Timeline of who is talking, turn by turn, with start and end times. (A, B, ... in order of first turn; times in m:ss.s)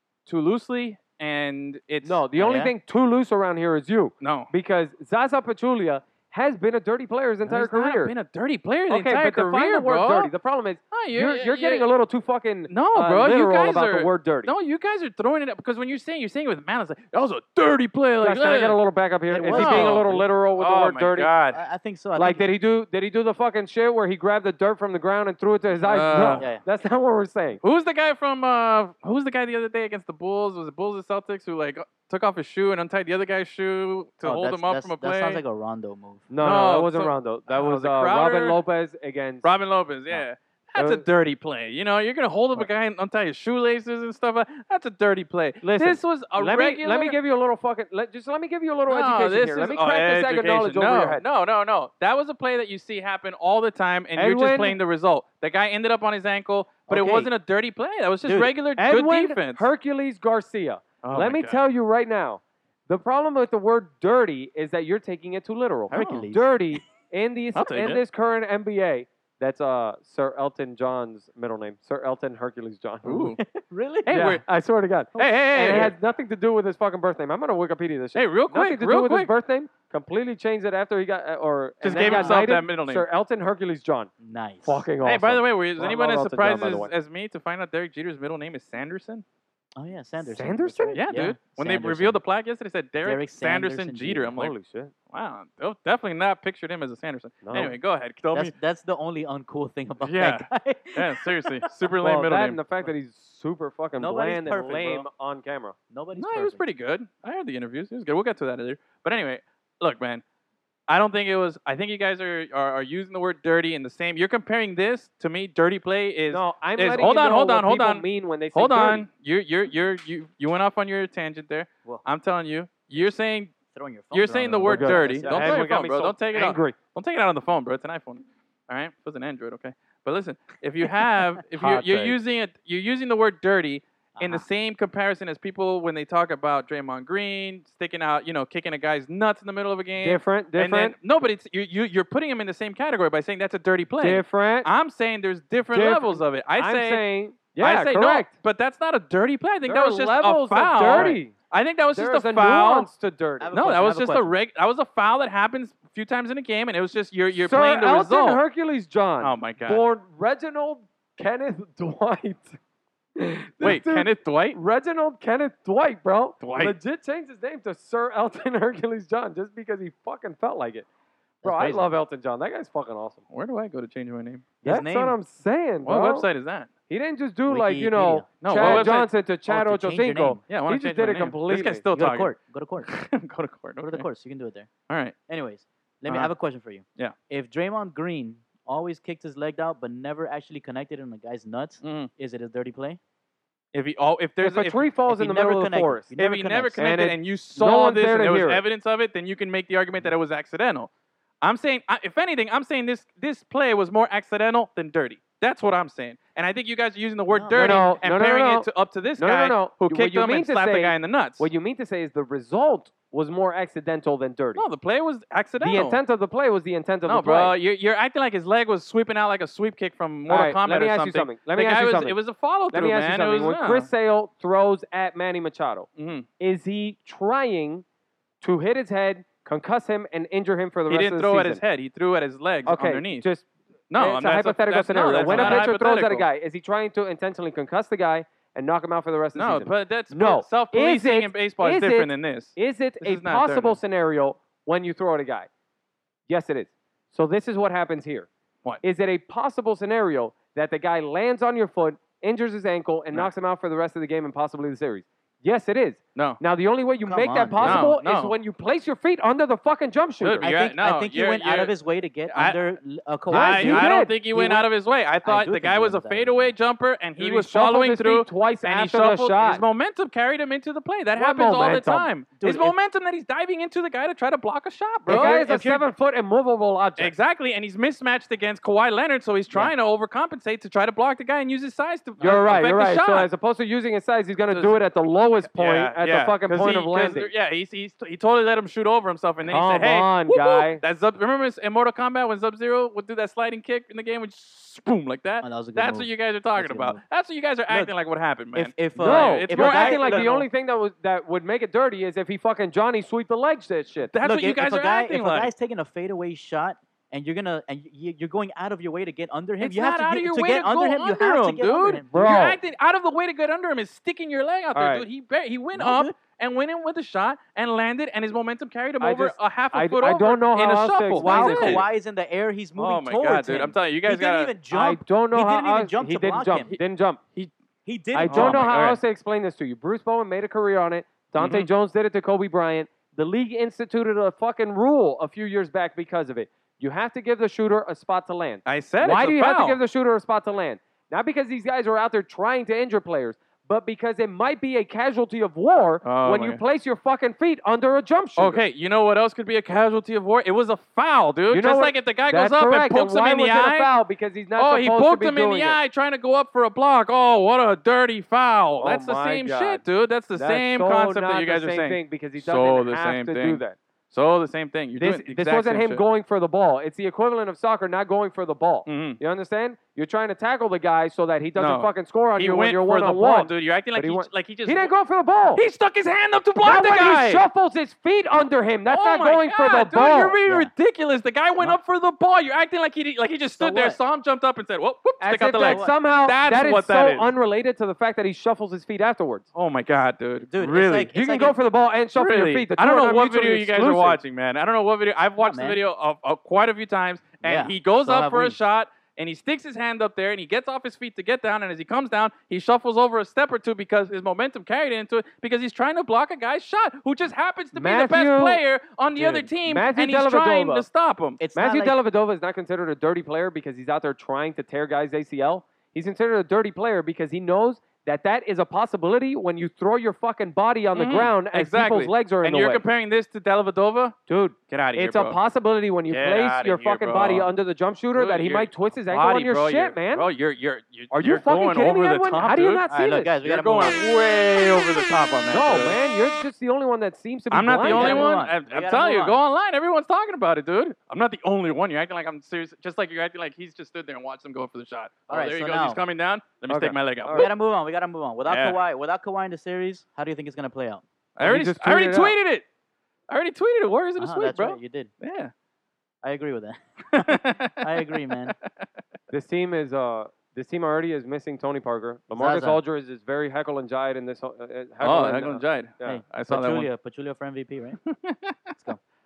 0:00.3-0:02.2 A
0:02.0-0:08.1 B
0:02.4-0:02.7 C
0:04.2-0:04.5 A
0:07.4-0:10.3 A
0:08.9-0:14.5 B
0:10.9-0:11.9 A
0:12.7-0:18.8 A
0:18.2-0:21.3 B
0:19.3-0:20.2 C
0:19.5-0:21.6 A
0:21.5-0:22.5 C
0:22.2-0:27.6 B
0:25.8-0:26.4 A
0:26.4-0:26.6 C
0:27.6-0:35.4 A
0:34.2-0:36.3 C
0:36.3-0:39.5 B
0:36.4-0:38.6 A
0:39.4-0:47.2 A
0:40.8-0:41.0 B
0:45.6-0:51.2 B
0:48.9-0:59.7 A
0:54.2-0:54.8 B
0:56.9-0:57.3 C
0:58.2-0:58.5 C
0:58.8-1:13.3 B
1:01.0-1:01.6 A
1:05.9-1:06.5 C
1:05.9-1:06.2 A
1:07.6-1:08.0 A
1:13.0-1:13.4 A
1:13.1-1:14.3 C
1:14.1-1:14.4 A
1:14.1-1:24.1 B
1:15.2-1:16.0 A
1:15.2-1:15.9 C
1:18.2-1:19.3 A
1:21.8-1:23.1 A
1:21.9-1:22.5 C
1:24.2-1:24.8 C
1:24.6-1:26.9 B
1:25.0-1:29.2 A
1:29.8-1:32.2 C
1:30.2-1:31.0 B
1:31.0-1:34.6 A
1:33.0-1:34.4 C
1:34.4-1:34.9 B
1:35.1-1:38.5 A
1:37.4-1:37.8 B
1:38.3-1:41.7 C
1:40.0-1:42.6 A
1:42.0-1:45.8 B
1:44.0-1:45.1 C
1:45.9-1:46.6 C
1:46.2-1:50.2 A
1:50.9-2:03.6 A
1:56.3-1:59.1 B
2:03.7-2:05.6 C
2:04.1-2:27.0 A
2:04.7-2:06.8 B
2:11.6-2:12.2 B
2:14.2-2:14.5 C
2:20.0-2:21.0 B
2:24.0-2:24.7 B
2:25.7-2:28.3 B
2:27.6-2:32.9 A
2:29.7-2:31.3 B
2:31.9-2:33.5 B
2:33.4-2:34.4 C
2:33.5-2:38.4 A
2:37.4-2:42.6 B
2:39.2-2:39.8 A
2:43.2-2:50.9 B
2:43.6-2:44.6 A
2:46.4-2:46.8 A
2:51.4-2:51.9 C
2:51.4-2:53.2 B
2:53.3-2:54.5 A
2:54.6-2:55.2 C
2:54.6-2:56.3 B
2:55.8-2:56.7 A
2:56.9-3:01.8 B
2:57.5-2:59.0 C
2:58.4-2:59.1 A
2:59.5-3:00.4 C
3:00.5-3:04.1 A
3:01.9-3:02.9 C
3:03.8-3:04.7 C
3:04.9-3:05.2 A
3:05.3-3:13.0 C
3:06.1-3:06.3 A
3:11.8-3:12.1 A
3:13.7-3:14.8 A
3:14.4-3:16.1 B
3:15.1-3:17.0 C
3:16.2-3:20.9 A
3:16.8-3:18.6 B
3:21.4-3:31.5 A
3:27.3-3:28.0 C
3:27.6-3:34.6 B
3:34.6-3:36.0 A
3:35.6-3:37.6 B
3:37.1-3:43.9 A
3:40.3-3:42.2 B
3:42.7-3:45.9 B
3:46.0-3:46.3 A
3:46.4-3:47.8 B
3:48.4-3:51.6 B
3:50.9-3:53.3 A
3:52.7-4:05.5 B
3:53.9-3:56.3 A
3:55.3-3:55.7 C
3:59.4-4:03.8 A
4:06.3-4:08.3 B
4:08.8-4:20.5 B
4:17.1-4:17.9 C
4:17.6-4:18.4 A
4:20.2-4:21.7 A
4:20.4-4:24.7 C
4:22.3-4:22.6 A
4:23.3-4:24.2 B
4:23.3-4:35.9 A
4:25.2-4:26.6 C
4:27.2-4:29.6 B
4:31.2-4:32.1 B
4:32.4-4:32.8 C
4:35.1-4:35.5 C
4:35.1-4:37.1 B
4:37.0-4:43.3 A
4:42.2-4:47.3 B
4:44.5-4:44.8 A
4:45.5-5:00.3 A
4:49.5-4:50.8 B
4:55.4-4:57.0 C
4:57.7-4:57.9 C
4:58.5-5:00.5 C
4:59.0-5:04.1 B
5:04.1-5:05.5 A
5:04.2-5:12.4 C
5:09.6-5:21.9 A
5:12.1-5:12.6 B
5:14.7-5:15.1 B
5:15.7-5:16.2 C
5:19.0-5:21.8 B
5:21.2-5:26.7 C
5:22.8-5:24.5 A
5:24.7-5:27.2 B
5:27.8-5:28.7 C
5:28.1-5:48.6 B
5:28.3-5:29.0 A
5:31.4-5:31.7 A
5:38.6-5:39.8 A
5:46.0-5:46.6 A
5:48.4-5:53.9 A
5:51.5-5:55.8 B
5:54.6-6:06.0 A
5:58.8-5:59.8 B
6:00.4-6:03.8 B
6:05.0-6:15.6 B
6:08.9-6:09.2 A
6:11.6-6:14.9 A
6:15.6-6:17.5 A
6:16.6-6:20.4 B
6:18.9-6:27.3 A
6:20.5-6:20.7 C
6:23.6-6:24.0 C
6:25.2-6:29.5 B
6:25.6-6:26.0 C
6:29.6-6:31.1 A
6:30.5-6:31.6 C
6:31.1-6:34.2 B
6:32.2-6:51.4 A
6:35.4-6:35.8 C
6:37.4-6:38.6 C
6:47.7-6:48.6 B
6:49.2-6:50.9 B
6:51.4-6:52.0 C
6:51.5-7:02.8 B
7:01.0-7:04.2 A
7:04.3-7:10.3 B
7:04.7-7:05.4 A
7:06.1-7:07.5 A
7:08.2-7:12.9 A
7:11.1-7:13.3 B
7:12.9-7:14.0 C
7:13.4-7:16.0 A
7:15.5-7:18.3 B
7:17.5-7:27.5 A
7:17.8-7:19.4 C
7:25.3-7:26.0 C
7:26.7-7:27.5 B
7:27.3-7:31.0 C
7:28.5-7:28.8 A
7:31.4-7:32.6 A
7:31.4-7:32.4 B
7:33.3-7:35.5 A
7:34.2-7:35.1 C
7:36.2-7:38.6 C
7:37.2-7:38.7 A
7:39.3-7:46.2 B
7:42.4-7:42.8 C
7:45.0-7:46.9 A
7:46.0-7:48.0 C
7:48.1-7:48.8 A